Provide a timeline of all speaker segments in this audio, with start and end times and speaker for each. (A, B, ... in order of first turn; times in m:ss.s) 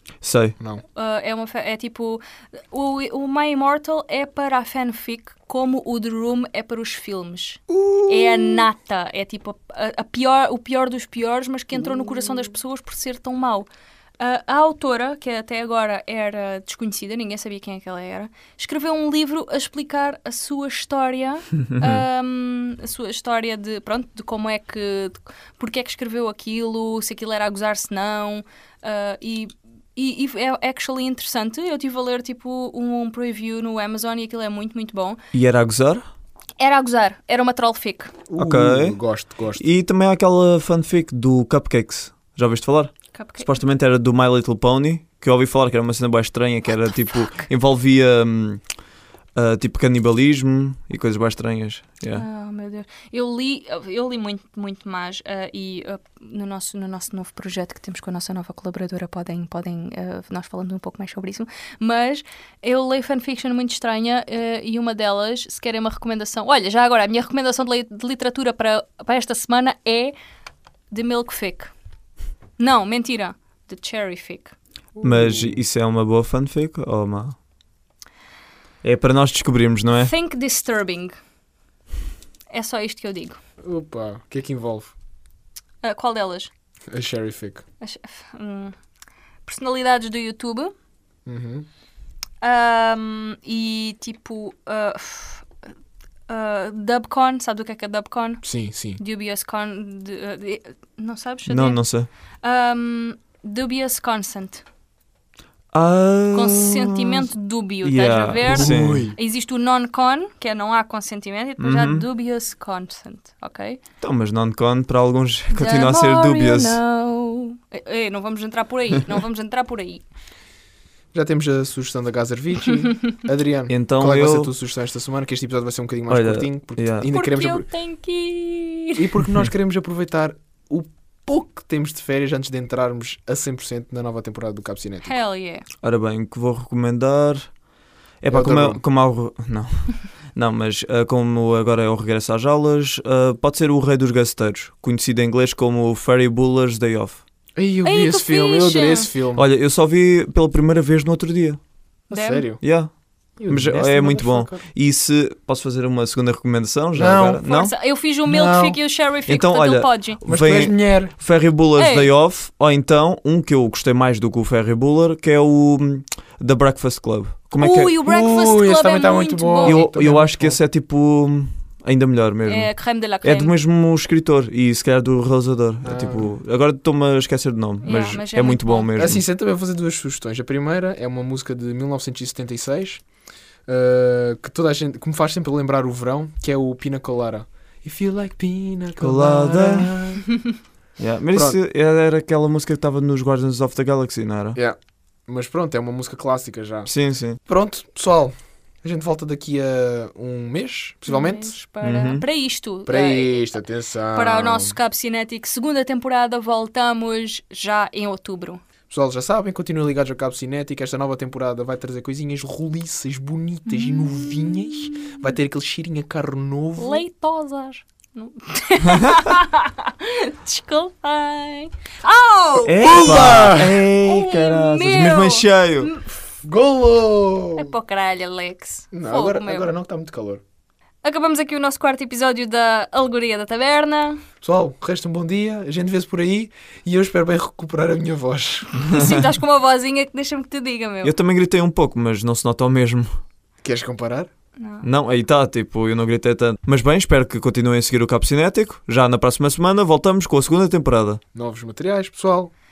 0:00.2-0:00.6 A
0:00.9-0:13.7 B
0:07.7-0:08.6 C
0:11.8-0:12.3 C
0:14.2-0:35.2 B
0:21.7-0:22.0 A
0:35.3-0:36.0 A
0:36.6-0:38.1 B
0:38.3-0:39.6 C
0:38.4-0:39.0 A
0:39.6-0:48.6 A
0:43.1-0:43.5 B
0:49.4-0:52.2 A
0:52.1-1:10.1 B
1:10.9-1:11.7 B
1:12.6-1:14.6 B
1:15.0-1:15.6 C
1:15.0-1:17.4 A
1:18.8-1:20.1 A
1:20.0-1:21.1 B
1:22.5-1:23.4 B
1:23.6-1:24.9 C
1:25.8-1:26.5 B
1:26.9-1:27.6 C
1:27.8-1:28.7 B
1:29.4-1:30.7 B
1:31.2-1:31.7 C
1:32.4-1:35.4 B
1:36.3-1:38.4 B
1:38.4-1:39.0 C
1:39.0-1:41.8 B
1:41.5-1:42.1 A
1:42.4-1:44.6 B
1:45.7-1:47.3 A
1:46.3-1:53.8 B
1:47.8-1:49.1 A
1:48.4-1:49.2 C
1:51.6-1:52.0 A
1:54.0-1:56.8 A
1:55.5-2:00.0 B
2:01.1-2:07.6 C
2:03.7-2:04.5 A
2:06.1-2:07.1 A
2:07.1-2:09.0 B
2:09.0-2:15.1 C
2:15.0-2:15.6 B
2:15.8-2:17.5 A
2:18.2-2:27.2 A
2:18.3-2:18.8 C
2:27.6-2:29.4 C
2:27.8-2:29.1 B
2:29.4-2:31.6 A
2:32.1-2:32.5 B
2:32.1-2:32.6 C
2:32.6-2:32.9 A
2:33.4-2:34.6 C
2:33.5-2:37.7 A
2:36.9-2:37.4 C
2:37.4-2:40.2 B
2:38.2-2:38.8 C
2:39.3-2:47.9 A
2:40.2-2:41.1 C
2:41.8-2:42.1 B
2:47.6-2:49.8 B
2:48.0-2:50.6 C
2:49.6-2:52.7 A
2:52.5-2:53.5 B
2:53.2-2:59.2 A
2:55.8-2:56.3 C
2:57.8-2:58.9 B
2:59.0-3:03.0 C
3:03.7-3:10.3 C
3:09.0-3:10.0 A
3:11.0-3:14.6 A
3:14.6-3:16.9 C
3:16.9-3:17.4 A
3:17.4-3:21.6 C
3:21.1-3:23.6 B
3:21.8-3:22.2 A
3:22.9-3:24.8 C
3:24.1-3:28.6 B
3:28.9-3:37.0 C
3:33.7-3:34.7 B
3:36.8-3:46.2 B
3:42.6-3:45.9 A
3:42.7-3:43.9 C
3:46.4-3:47.7 C
3:47.6-3:49.7 B
3:48.9-3:50.4 C
3:51.0-3:54.2 B
3:54.4-3:58.9 C
3:58.8-4:01.1 B
3:58.9-3:59.2 A
4:01.0-4:03.2 A
4:03.6-4:04.3 C
4:04.6-4:04.9 B
4:04.8-4:11.2 A
4:11.3-4:12.5 C